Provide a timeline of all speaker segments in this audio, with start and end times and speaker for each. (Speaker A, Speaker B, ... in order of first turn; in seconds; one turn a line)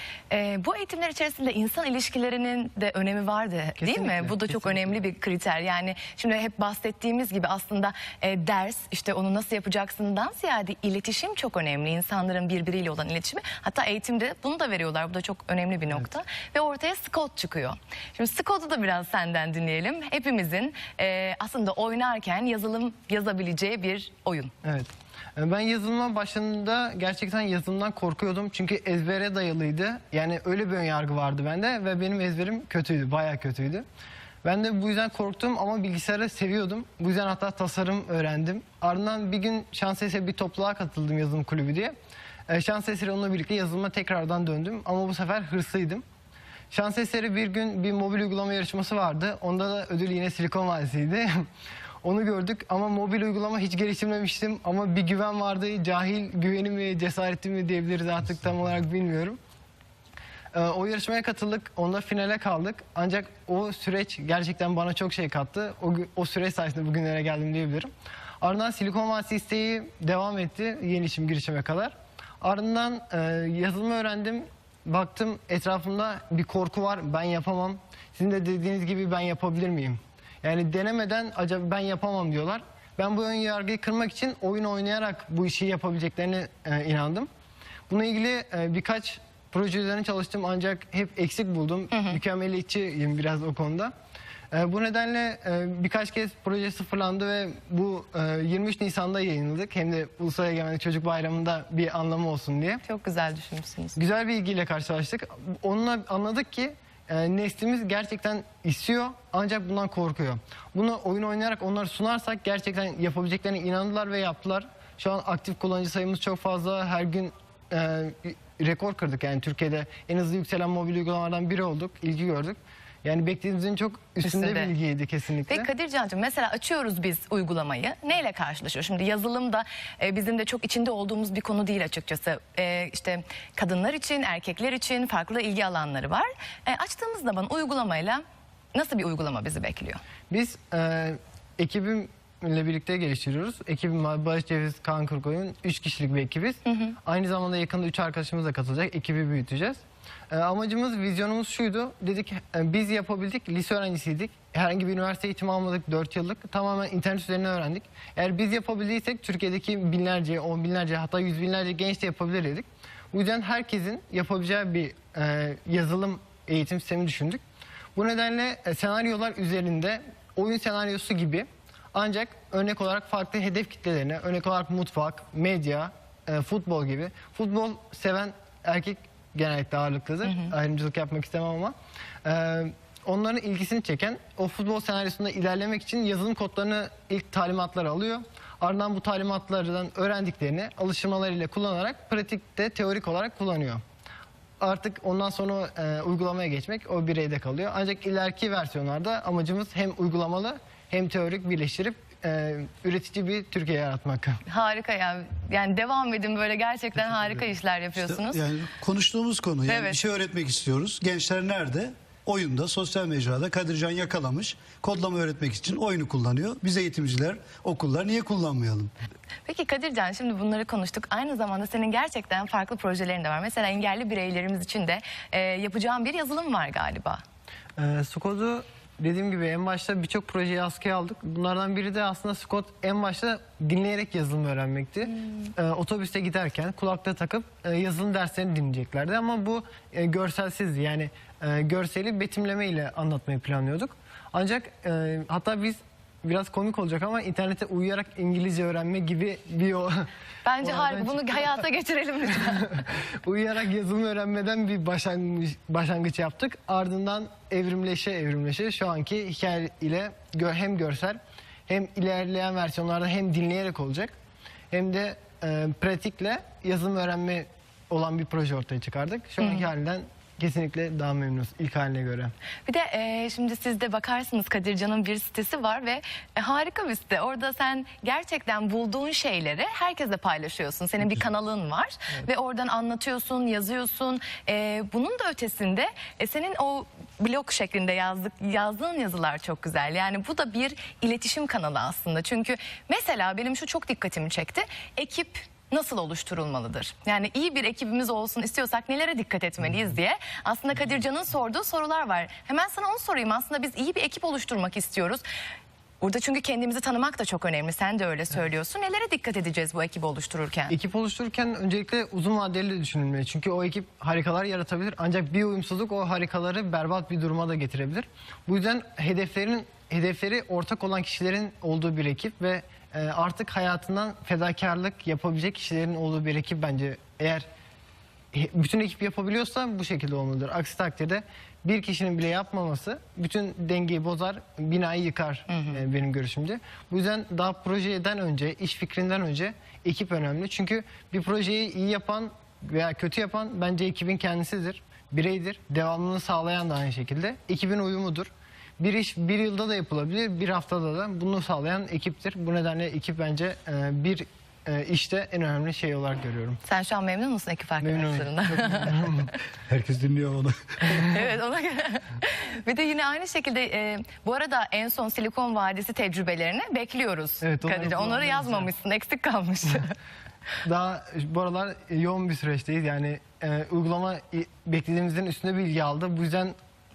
Speaker A: 0.3-24.5
Speaker B: 3.8-5.0
Speaker B: 24.6-33.9
Speaker B: 34.4-41.9
Speaker B: 42.5-46.0
Speaker B: 46.7-51.5
Speaker B: 52.0-59.4
Speaker B: 60.5-67.9
Speaker B: 68.4-87.3
Speaker B: 87.9-93.9
Speaker A: 91.9-92.2
Speaker B: 94.5-102.8
Speaker A: 102.8-104.0
Speaker B: 104.0-125.7
Speaker A: 124.2-124.7
Speaker A: 125.5-138.2
Speaker A: 138.7-140.0
Speaker B: 140.3-167.4
Speaker A: 146.7-147.0
Speaker B: 167.9-193.8
Speaker B: 194.6-204.4
Speaker A: 204.5-208.4
Speaker C: 208.0-218.9
Speaker A: 209.7-210.0
Speaker A: 219.5-227.2
Speaker B: 227.8-250.1
Speaker A: 250.4-252.8
Speaker B: 250.6-251.6
Speaker B: 252.8-264.1
Speaker B: 264.7-272.3
Speaker A: 272.7-305.2
Speaker A: 306.0-310.8
Speaker B: 310.7-327.5
Speaker B: 328.3-356.6
Speaker A: 335.5-335.8
Speaker A: 356.6-359.1
Speaker B: 357.8-359.3
Speaker C: 359.7-361.2
Speaker A: 360.9-369.9
Speaker B: 367.4-368.7
Speaker B: 370.6-376.6